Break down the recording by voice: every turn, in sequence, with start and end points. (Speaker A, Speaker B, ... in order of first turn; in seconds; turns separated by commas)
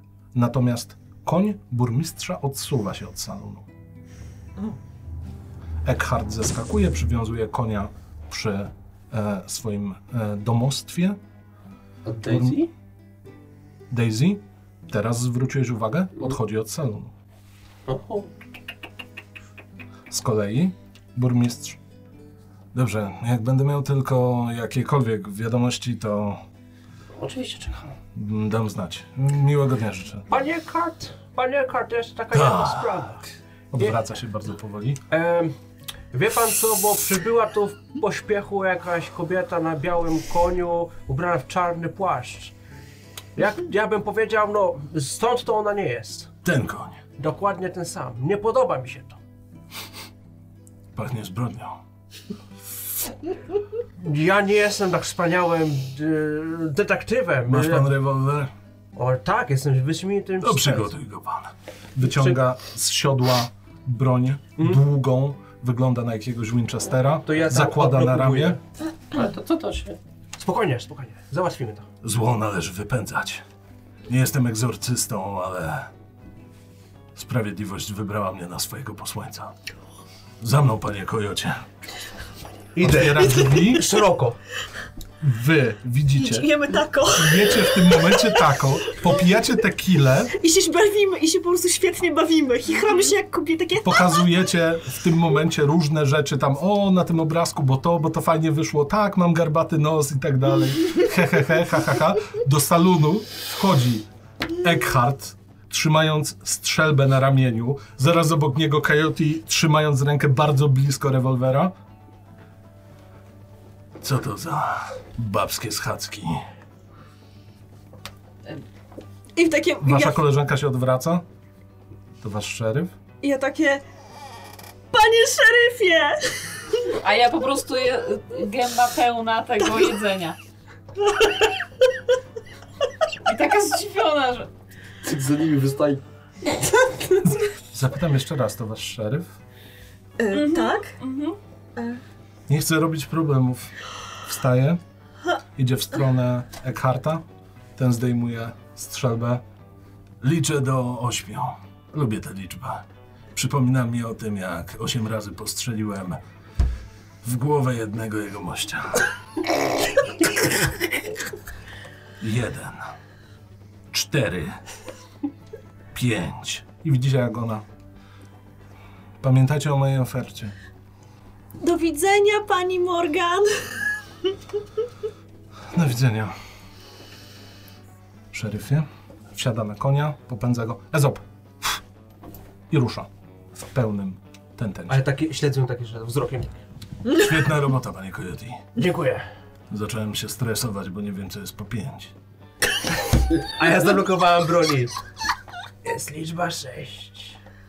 Speaker A: 0.3-3.6, Speaker A: 5.8-11.2, Speaker B: 12.0-12.7, Speaker A: 12.2-12.6, Speaker A: 13.9-17.1, Speaker B: 17.9-18.3, Speaker A: 20.1-21.8, Speaker A: 22.7-26.4, Speaker B: 27.1-27.9, Speaker A: 28.1-30.3, Speaker C: 30.3-33.2, Speaker A: 32.3-33.1, Speaker A: 33.7-35.0, Speaker C: 35.1-35.5, Speaker C: 36.1-42.5, Speaker C: 43.4-46.3, Speaker A: 46.4-47.0, Speaker C: 47.2-49.2, Speaker A: 50.9-51.8, Speaker C: 54.0-57.9, Speaker A: 57.5-58.5, Speaker C: 58.9-60.9, Speaker A: 60.4-68.6, Speaker C: 62.0-62.4, Speaker C: 67.2-68.6, Speaker B: 68.8-70.0, Speaker C: 70.4-71.8, Speaker A: 72.0-73.4, Speaker A: 74.1-75.9, Speaker A: 77.1-79.5, Speaker A: 80.4-81.6, Speaker C: 82.7-84.4, Speaker A: 82.8-83.9, Speaker A: 85.2-86.5, Speaker D: 86.1-89.1, Speaker A: 87.1-90.3, Speaker D: 90.4-94.4, Speaker A: 93.8-104.1, Speaker A: 104.6-111.7, Speaker A: 114.0-116.4, Speaker D: 119.3-120.2, Speaker A: 119.8-121.2, Speaker A: 122.2-122.9, Speaker D: 123.2-123.8, Speaker D: 124.9-126.6, Speaker E: 127.0-130.4, Speaker E: 133.2-134.5, Speaker B: 135.0-136.0, Speaker A: 137.2-139.3, Speaker D: 140.2-140.9, Speaker E: 140.3-141.4, Speaker A: 142.5-143.7, Speaker A: 144.2-144.8, Speaker A: 145.6-147.2, Speaker A: 147.8-149.4, Speaker A: 150.2-156.2, Speaker A: 157.2-159.1, Speaker A: 162.2-162.9, Speaker A: 163.9-164.6, Speaker A: 165.9-167.6, Speaker A: 169.2-170.5, Speaker D: 171.6-173.9, Speaker A: 175.7-176.3, Speaker A: 178.3-181.8, Speaker A: 182.7-185.0, Speaker C: 184.9-186.5, Speaker A: 187.1-188.6, Speaker C: 188.8-189.2, Speaker A: 189.7-192.1, Speaker C: 193.4-195.0, Speaker C: 195.8-197.4